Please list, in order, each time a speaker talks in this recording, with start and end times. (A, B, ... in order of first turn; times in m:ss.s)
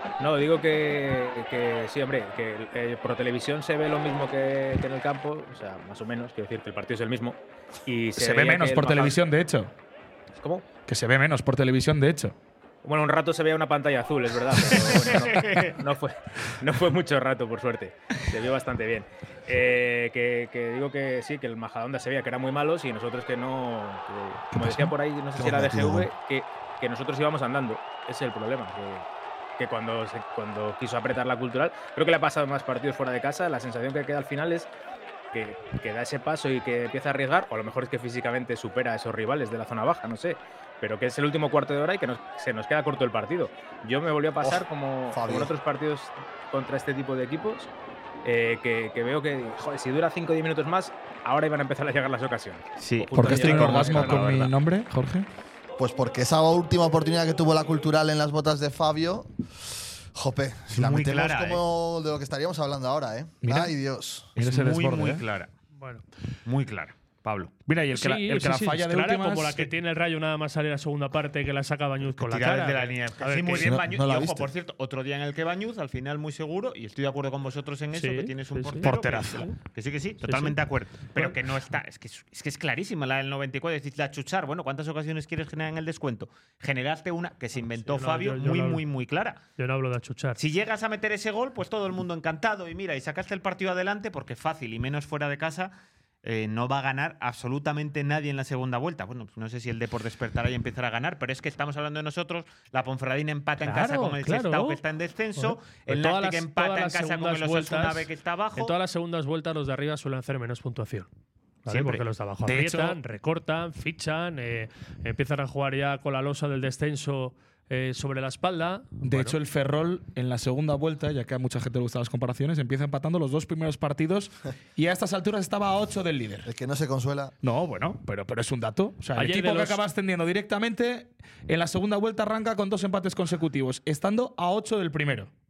0:00.2-0:09.2 A
0:08.2-0:09.7 B
0:10.4-0:10.7 A
0:10.9-0:12.3 B
0:12.8-0:29.0 A
0:14.7-0:15.8 C
0:24.5-0:24.9 B
0:25.4-0:26.1 D
0:29.6-0:34.7 A
0:35.3-0:47.7 A
0:44.4-0:45.5 D
0:48.2-0:54.4 A
0:52.8-0:54.5 C
0:53.1-0:55.2 B
0:55.8-0:59.3 D
1:00.1-1:04.3 D
1:00.8-1:01.6 C
1:03.4-1:03.8 B
1:04.4-1:05.2 B
1:04.4-1:05.5 C
1:05.8-1:06.0 E
1:06.4-1:07.5 C
1:07.7-1:09.7 B
1:07.9-1:13.8 E
1:12.2-1:29.4 C
1:13.6-1:14.5 D
1:17.9-1:19.5 E
1:18.8-1:19.5 B
1:20.2-1:20.6 E
1:27.7-1:28.8 E
1:29.6-1:30.4 E
1:30.4-1:35.7 C
1:36.2-1:48.8 C
1:43.6-1:44.8 E
1:45.4-1:51.1 E
1:51.6-1:59.4 E
1:51.7-1:52.0 C
1:52.5-1:52.9 B
1:59.0-2:06.5 B
2:06.4-2:07.3 D
2:07.4-2:15.3 B
2:09.2-2:09.8 E